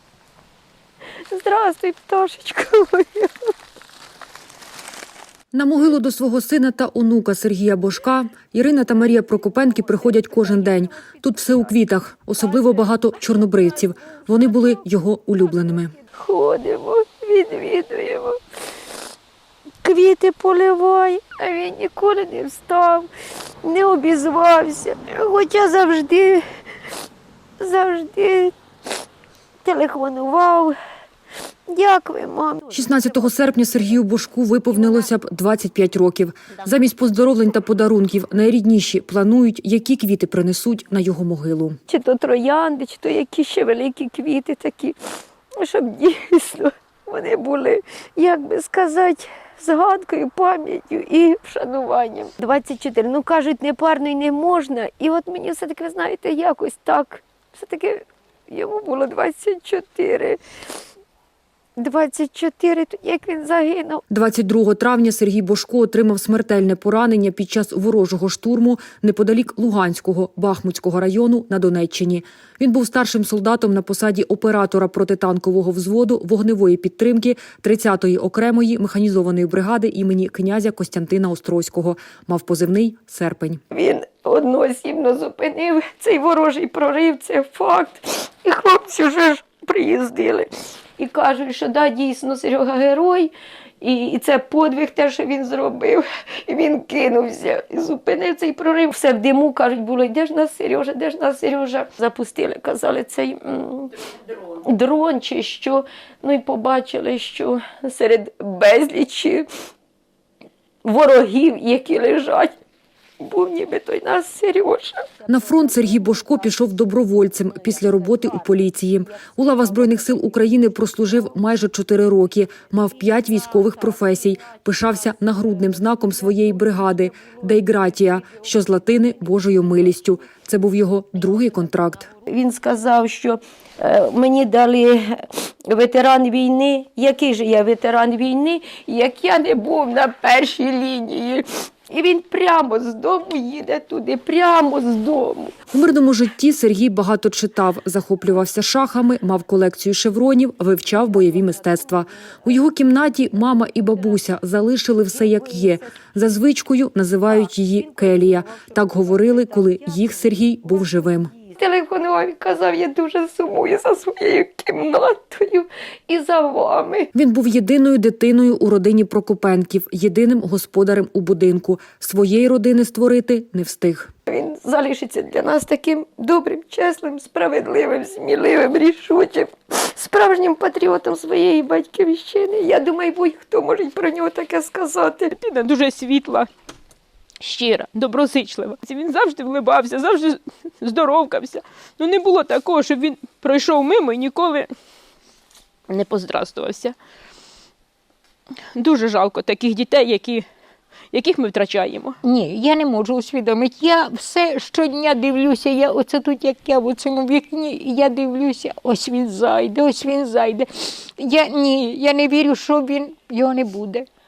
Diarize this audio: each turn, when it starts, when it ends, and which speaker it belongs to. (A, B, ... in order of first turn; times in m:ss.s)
0:01.3-0:03.5 A
0:05.5-0:15.9 B
0:16.1-0:18.4 A
0:19.8-0:23.1 A
0:23.6-0:26.4 A
0:27.6-0:28.5 A
0:29.6-0:30.7 A
0:31.7-0:32.7 A
0:32.7-0:41.8 B
0:41.9-0:45.0 A
0:45.6-1:00.4 A
1:01.8-1:04.0 A
1:04.1-1:23.6 B
1:23.7-1:49.5 A
1:50.8-1:52.5 A
1:53.2-1:55.1 A
1:55.2-2:12.1 B
2:12.2-2:25.6 A
2:25.7-2:41.3 B
2:41.5-2:47.1 A
2:47.1-2:54.1 B
2:54.3-3:05.3 A
3:05.3-3:06.5 C
3:07.4-3:14.7 C
3:15.9-3:17.0 C
3:18.7-3:20.4 C
3:21.1-3:22.2 C
3:22.2-3:34.1 D